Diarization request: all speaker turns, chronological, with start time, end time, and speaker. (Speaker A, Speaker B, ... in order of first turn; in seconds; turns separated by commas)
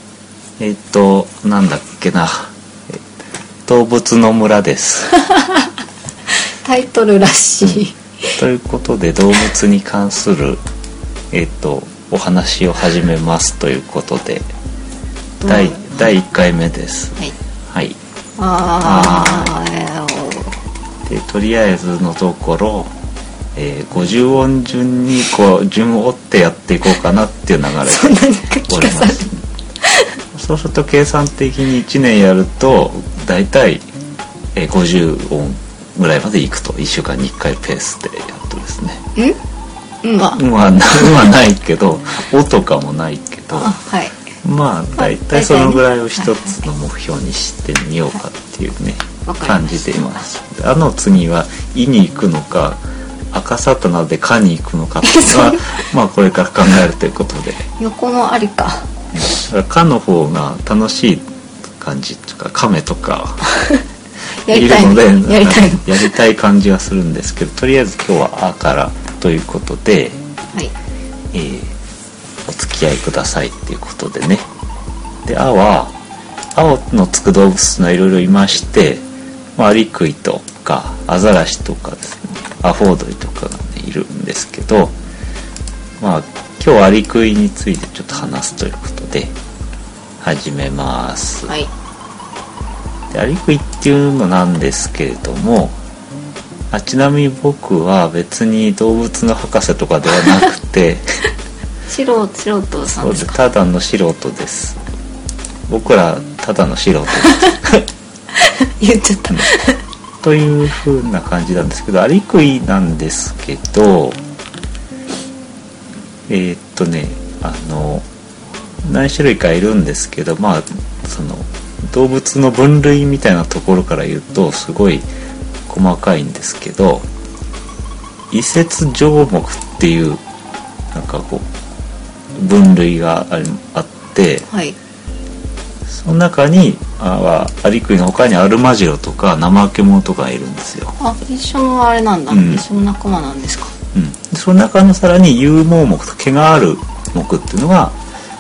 Speaker A: 0.6-3.0, Speaker A: 3.7-5.1, Speaker B: 5.2-5.7, Speaker B: 6.5-8.4, Speaker A: 7.6-10.6, Speaker A: 11.3-14.5, Speaker B: 15.4-16.1, Speaker A: 15.5-18.0, Speaker B: 18.4-20.6, Speaker A: 18.8-19.6, Speaker A: 21.1-22.9, Speaker A: 23.5-29.4, Speaker B: 27.8-29.3, Speaker B: 29.8-30.1, Speaker A: 30.3-33.9, Speaker A: 34.5-39.0, Speaker B: 40.0-41.3, Speaker A: 40.3-43.7, Speaker B: 43.5-44.4, Speaker A: 44.4-57.6, Speaker B: 45.0-46.6, Speaker B: 49.3-50.2, Speaker B: 55.0-55.8, Speaker B: 57.8-58.9, Speaker A: 59.1-63.5, Speaker B: 63.5-63.8, Speaker B: 64.4-66.2, Speaker A: 64.5-70.2, Speaker A: 71.3-71.7, Speaker A: 72.5-74.5, Speaker A: 75.2-76.0, Speaker A: 76.5-79.0, Speaker A: 79.6-85.0, Speaker A: 86.0-89.3, Speaker A: 90.2-91.5, Speaker A: 93.1-95.8, Speaker A: 96.7-101.1, Speaker B: 101.9-103.4, Speaker A: 103.0-104.8, Speaker A: 105.7-107.8, Speaker B: 107.2-107.7, Speaker B: 108.3-109.8, Speaker A: 110.2-114.2, Speaker A: 116.3-118.1, Speaker A: 118.8-125.1, Speaker A: 125.7-127.1, Speaker A: 128.3-130.2, Speaker A: 130.9-131.5, Speaker A: 132.3-134.5, Speaker B: 134.5-134.8, Speaker A: 135.9-140.9, Speaker B: 141.0-143.7, Speaker A: 142.3-142.6, Speaker A: 143.9-148.0